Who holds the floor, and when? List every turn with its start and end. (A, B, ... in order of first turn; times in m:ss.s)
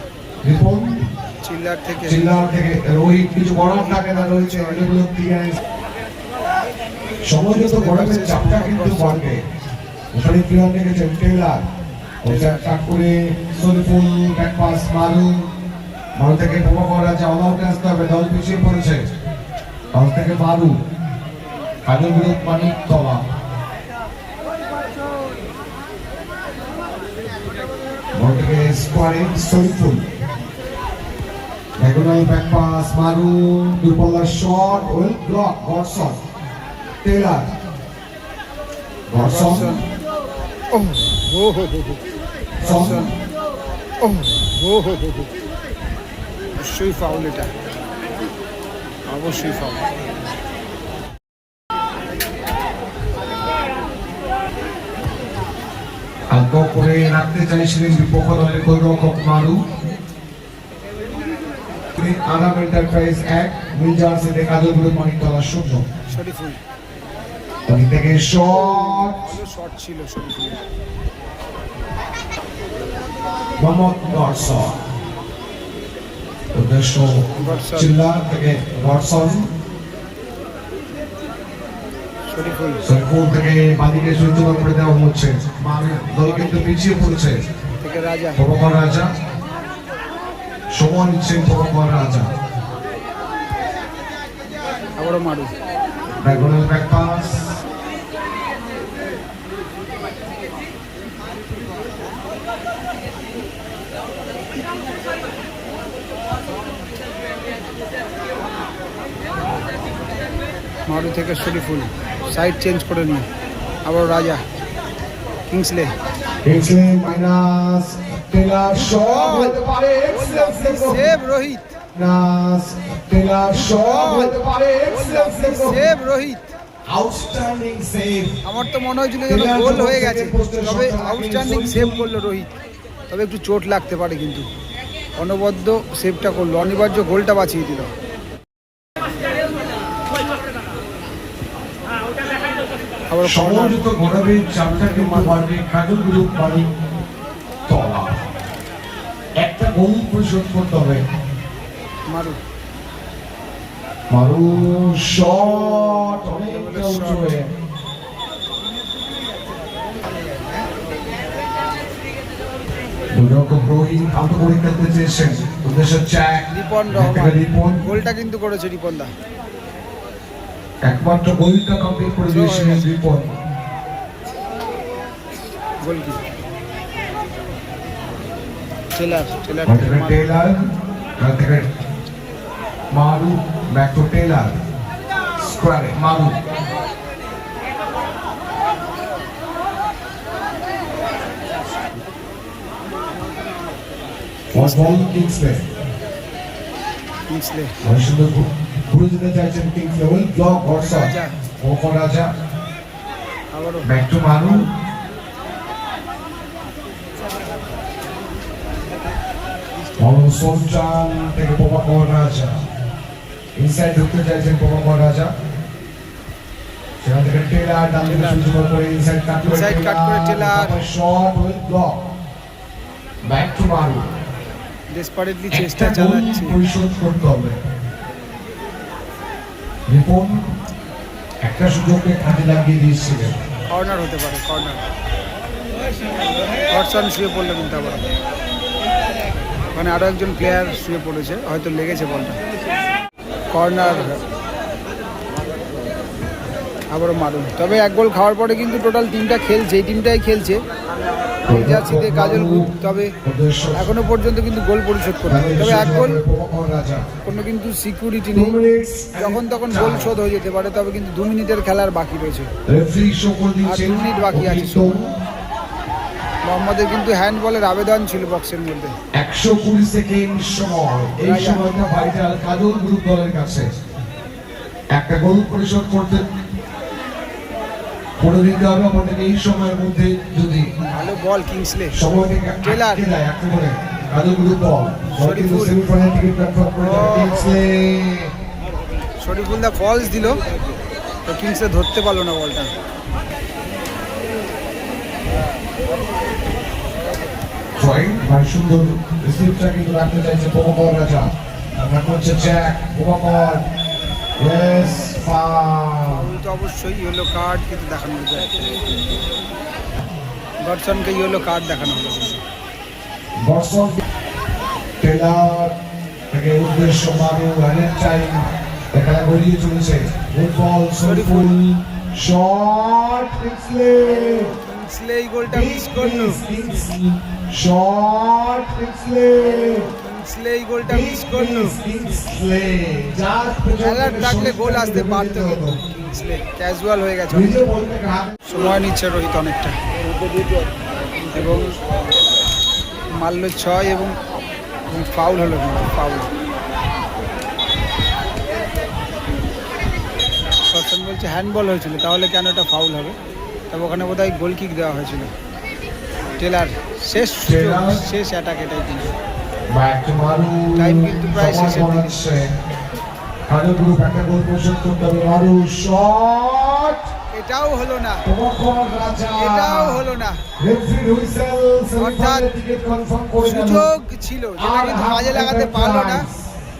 0:00.4-0:01.0 A
0:01.4-0:02.3 B
0:02.0-0:05.6 A
0:03.5-0:04.9 B
0:07.2-0:09.4 A
0:07.5-0:09.3 B
0:10.1-0:11.6 A
0:12.2-0:15.5 A
0:12.2-0:12.7 B
0:16.2-0:19.0 A
0:19.9-0:20.8 A
0:21.8-0:23.2 A
0:28.1-0:30.0 A
0:31.8-0:36.2 A
0:37.0-0:37.5 A
0:39.1-0:39.8 A
0:39.2-0:39.8 B
0:40.7-0:42.0 B
0:42.6-0:43.1 A
0:42.6-0:43.1 B
0:44.0-0:45.3 B
0:46.6-0:47.5 B
0:49.1-0:49.8 B
0:56.3-0:59.6 A
1:01.9-1:05.9 A
1:06.1-1:06.6 B
1:07.7-1:09.3 A
1:09.1-1:10.6 B
1:13.6-1:14.8 A
1:16.5-1:17.1 A
1:17.4-1:17.9 B
1:17.7-1:19.5 A
1:22.3-1:22.8 B
1:22.8-1:27.4 A
1:26.2-1:26.7 B
1:27.8-1:28.4 B
1:28.4-1:29.1 A
1:30.7-1:32.3 A
1:35.0-1:35.5 B
1:36.2-1:37.6 A
1:50.9-1:53.3 B
1:53.8-1:54.4 B
1:55.5-1:55.9 B
1:56.4-2:01.1 A
1:58.7-1:59.6 B
2:00.1-2:01.7 B
2:01.9-2:05.8 A
2:03.5-2:04.4 B
2:04.9-2:06.4 B
2:06.9-2:08.4 A
2:08.4-2:12.5 B
2:09.3-2:12.1 A
2:13.1-2:14.4 B
2:15.2-2:17.9 B
2:23.1-2:23.8 B
2:23.2-2:26.7 A
2:24.5-2:25.4 B
2:27.7-2:28.2 A
2:29.4-2:31.0 A
2:32.1-2:32.4 B
2:34.1-2:37.5 A
2:36.4-2:37.4 B
2:43.1-2:47.8 A
2:46.5-2:49.1 B
2:50.8-2:53.4 A
2:52.3-2:52.8 B
2:55.8-2:56.2 B
2:59.0-3:00.3 B
2:59.6-3:00.6 A
3:01.2-3:01.6 A
3:02.9-3:04.5 A
3:05.4-3:06.3 A
3:14.5-3:15.0 B
3:14.5-3:15.6 A
3:17.3-3:17.7 B
3:17.8-3:22.3 A
3:20.7-3:21.3 B
3:23.5-3:23.9 B
3:23.8-3:24.6 A
3:30.0-3:32.6 A
3:33.6-3:35.3 A
3:37.0-3:42.0 A
3:38.0-3:38.5 B
3:39.4-3:40.8 B
3:43.2-3:44.0 A
3:44.9-3:46.6 B
3:45.5-3:47.6 A
3:49.9-3:50.4 A
3:51.4-3:53.3 A
3:53.7-3:54.8 B
3:56.7-3:58.1 B
3:59.7-4:02.4 B
4:03.5-4:04.2 B
4:06.9-4:10.6 B
4:11.5-4:12.7 A
4:11.5-4:13.1 B
4:13.2-4:13.9 A
4:13.7-4:16.2 B
4:15.2-4:17.0 A
4:17.2-4:18.6 B
4:18.3-4:20.1 A
4:19.2-4:22.5 B
4:22.7-4:25.1 A
4:23.6-4:24.9 B
4:26.5-4:28.9 B
4:29.1-4:33.7 A
4:31.2-4:31.7 B
4:34.9-4:36.2 A
4:38.2-4:40.7 A
4:40.9-4:41.9 B
4:41.9-4:48.3 A
4:42.6-4:43.0 B
4:45.1-4:45.8 B
4:46.8-4:47.6 B
4:49.2-4:50.4 B
4:51.2-4:52.7 B
4:57.8-5:01.3 A
5:01.8-5:03.6 A
5:04.4-5:06.3 A
5:06.1-5:08.8 B
5:10.6-5:12.4 B
5:13.4-5:14.0 A
5:15.0-5:15.7 A
5:16.3-5:24.5 A
5:21.0-5:21.5 B
5:24.4-5:26.4 B
5:25.5-5:29.9 A
5:30.1-5:31.8 B
5:30.9-5:35.8 A
5:33.8-5:37.6 B
5:37.3-5:38.3 A
5:38.4-5:39.8 B
5:41.3-5:41.8 B
5:43.2-5:44.1 B
5:44.9-5:46.3 B
5:50.6-5:53.1 B
5:53.7-5:55.3 B
5:56.4-5:59.1 B
5:57.4-5:58.0 A
5:59.7-6:02.5 A
6:00.8-6:02.2 B
6:03.5-6:07.1 A
6:07.3-6:08.2 B
6:08.2-6:10.0 A
6:09.4-6:10.4 B
6:10.6-6:13.8 A
6:12.0-6:12.5 B
6:13.4-6:16.2 B
6:14.6-6:16.4 A